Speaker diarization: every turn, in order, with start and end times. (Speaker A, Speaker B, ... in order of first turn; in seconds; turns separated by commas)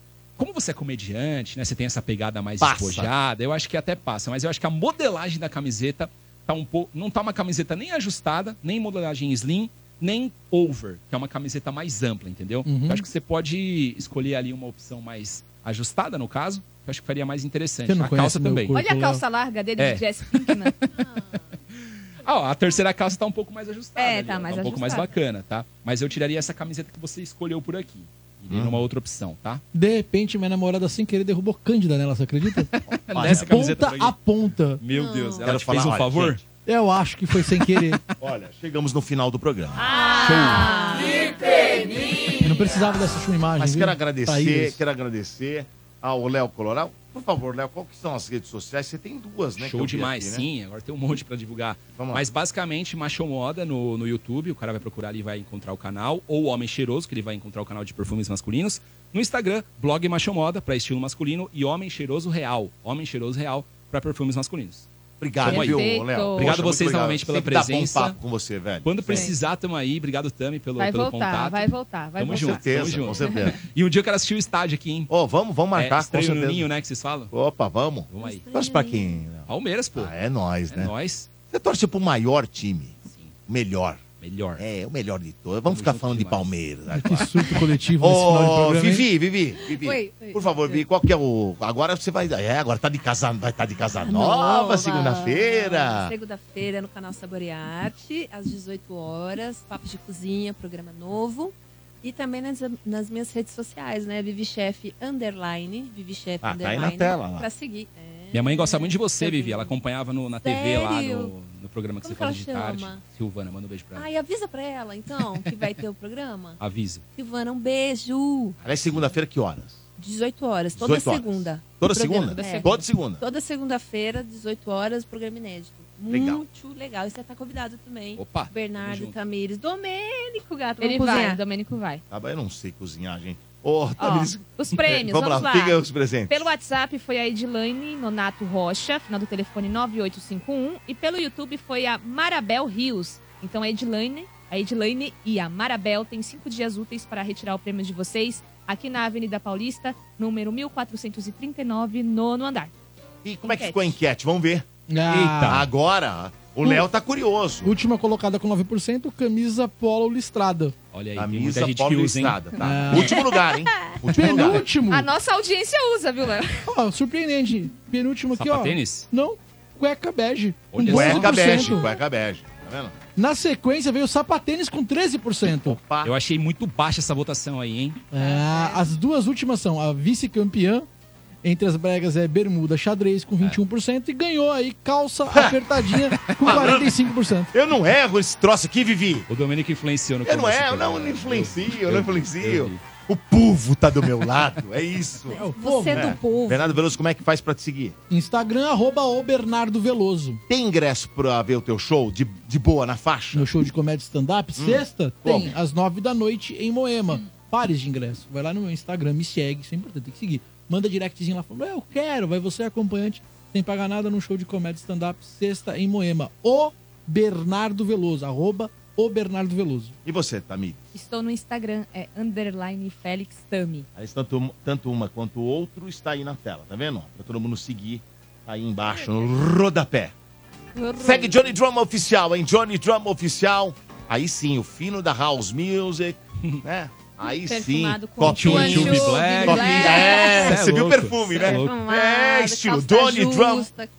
Speaker A: 0.4-18.8, Speaker B: 2.6-3.1, Speaker C: 12.6-13.1, Speaker C: 17.9-19.2, Speaker D: 18.7-20.7, Speaker A: 19.8-20.9, Speaker E: 20.9-21.5, Speaker A: 21.7-29.6, Speaker D: 23.9-25.1, Speaker B: 28.5-28.8, Speaker C: 29.7-34.8, Speaker B: 32.9-33.8, Speaker A: 33.1-34.2, Speaker A: 34.8-36.4, Speaker E: 34.9-35.5, Speaker B: 35.4-36.4, Speaker C: 36.6-38.0, Speaker A: 37.6-38.2, Speaker B: 38.2-40.6, Speaker D: 39.8-41.2, Speaker E: 39.9-42.0, Speaker A: 40.3-40.6, Speaker C: 42.4-44.8, Speaker B: 43.6-50.5, Speaker A: 49.5-64.9, Speaker B: 52.0-52.2, Speaker B: 65.2-69.3, Speaker A: 65.4-68.2, Speaker D: 65.4-66.6, Speaker A: 68.8-75.1, Speaker D: 69.1-69.3, Speaker D: 70.8-73.4, Speaker B: 72.3-73.6, Speaker B: 75.1-76.7, Speaker A: 75.7-77.3, Speaker B: 77.3-80.9, Speaker A: 78.1-78.4, Speaker E: 78.2-79.2, Speaker A: 79.5-80.1, Speaker A: 80.7-81.3, Speaker B: 81.5-84.0, Speaker A: 83.0-83.4, Speaker A: 84.2-84.7, Speaker B: 84.6-96.1, Speaker A: 85.7-86.6, Speaker C: 86.9-89.0, Speaker E: 89.7-90.8, Speaker E: 94.1-109.8, Speaker B: 106.4-107.5, Speaker A: 108.3-114.1, Speaker E: 110.4-111.3, Speaker E: 112.0-113.0, Speaker E: 113.9-116.6, Speaker A: 116.6-117.0, Speaker E: 117.1-118.6, Speaker A: 118.6-119.1, Speaker B: 118.6-119.8, Speaker E: 120.0-131.4, Speaker B: 120.8-123.2, Speaker D: 122.3-122.7, Speaker B: 126.1-126.4, Speaker A: 128.2-129.2, Speaker D: 130.8-132.0, Speaker B: 132.1-136.5, Speaker D: 134.0-152.7, Speaker B: 153.2-154.6, Speaker D: 153.4-153.9, Speaker C: 154.9-155.7, Speaker A: 155.1-155.7, Speaker B: 155.4-157.7, Speaker C: 157.6-160.7, Speaker A: 160.9-162.4, Speaker B: 161.2-164.6, Speaker C: 162.6-163.2, Speaker E: 163.2-163.5, Speaker C: 164.1-165.1, Speaker D: 164.9-166.7, Speaker C: 166.7-171.9, Speaker A: 168.3-169.1, Speaker A: 170.7-171.7, Speaker B: 170.8-172.9, Speaker C: 173.2-175.8, Speaker B: 175.6-176.1, Speaker A: 176.0-178.0, Speaker C: 178.1-180.9, Speaker E: 178.2-178.9, Speaker C: 181.4-187.5, Speaker B: 185.3-185.6, Speaker A: 186.1-186.6, Speaker B: 186.4-187.0, Speaker B: 187.5-189.3, Speaker A: 189.3-192.8, Speaker B: 190.2-197.9, Speaker C: 195.3-196.2, Speaker E: 195.4-196.8, Speaker C: 198.1-200.4, Speaker B: 200.5-203.5, Speaker C: 203.3-219.9, Speaker B: 204.6-205.5, Speaker B: 220.0-220.9, Speaker D: 220.9-223.9, Speaker B: 223.9-230.1, Speaker D: 230.7-231.6, Speaker B: 231.0-243.7, Speaker D: 237.2-240.5, Speaker A: 238.2-241.8, Speaker E: 239.6-240.5, Speaker E: 241.3-243.9